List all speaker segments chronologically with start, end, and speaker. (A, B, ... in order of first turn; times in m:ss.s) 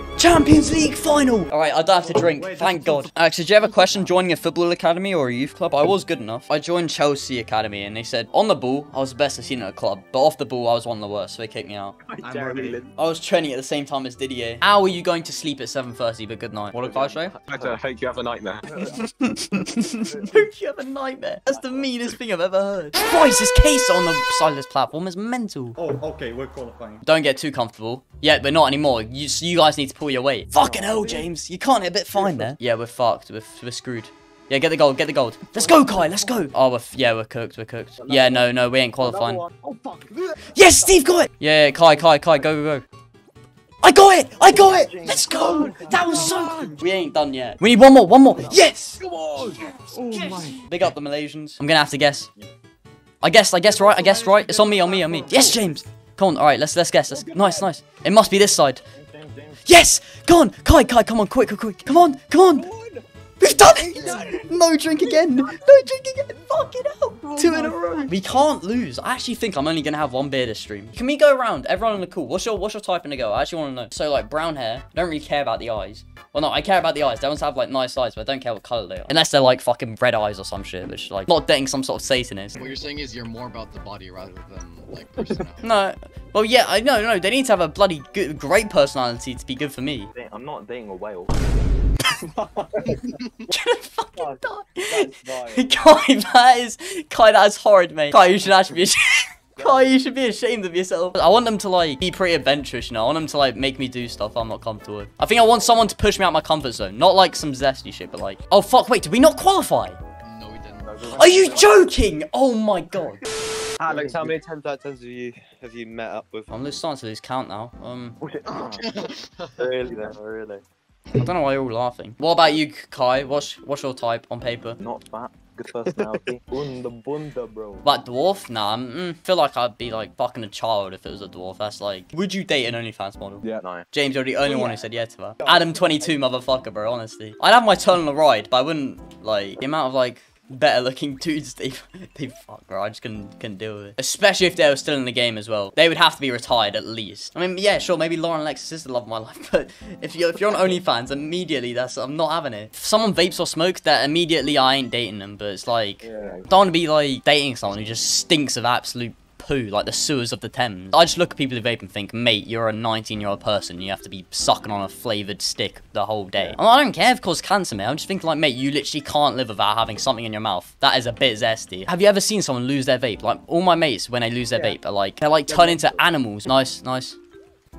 0:00.2-0:12.0 A
0:02.1-0:03.1 B
0:12.1-0:12.9 C
0:12.2-0:12.8 B
0:12.9-0:17.3 A
0:16.8-0:19.0 C
0:18.9-0:25.8 A
0:21.5-0:22.0 C
0:25.8-0:27.0 B
0:27.0-0:39.4 A
0:30.6-0:31.3 C
0:32.2-0:32.5 C
0:35.8-0:36.2 C
0:38.0-0:38.4 C
0:39.0-0:40.9 C
0:40.5-0:42.8 A
0:43.8-0:49.0 A
0:44.5-0:46.4 D
0:45.2-0:46.8 C
0:48.3-0:50.6 C
0:49.8-0:52.3 A
0:53.2-0:58.8 A
0:53.8-0:54.3 C
0:54.2-0:55.5 B
0:55.2-0:55.6 C
0:57.1-0:57.7 C
0:59.2-0:59.5 C
0:59.6-1:02.7 A
1:02.5-1:05.5 C
1:03.4-1:22.6 A
1:07.2-1:08.3 C
1:22.6-1:25.7 E
1:25.6-1:30.1 A
1:30.1-1:31.3 D
1:32.2-1:33.3 C
1:33.5-1:50.0 A
1:34.2-1:35.7 C
1:50.2-1:51.1 E
1:50.9-1:51.7 C
1:51.1-1:53.2 A
1:51.2-1:51.7 D
1:53.8-1:56.5 C
1:53.8-1:54.4 D
1:56.5-1:58.2 A
1:58.2-1:59.1 D
1:59.0-1:59.5 E
1:59.6-2:00.6 C
1:59.6-2:00.2 D
2:01.1-2:04.8 A
2:04.8-2:07.8 D
2:05.9-2:06.1 C
2:07.8-2:57.2 A
2:13.4-2:13.8 C
2:14.4-2:14.8 C
2:15.4-2:16.2 C
2:36.0-2:36.4 C
2:36.2-2:36.4 D
2:55.5-2:56.0 C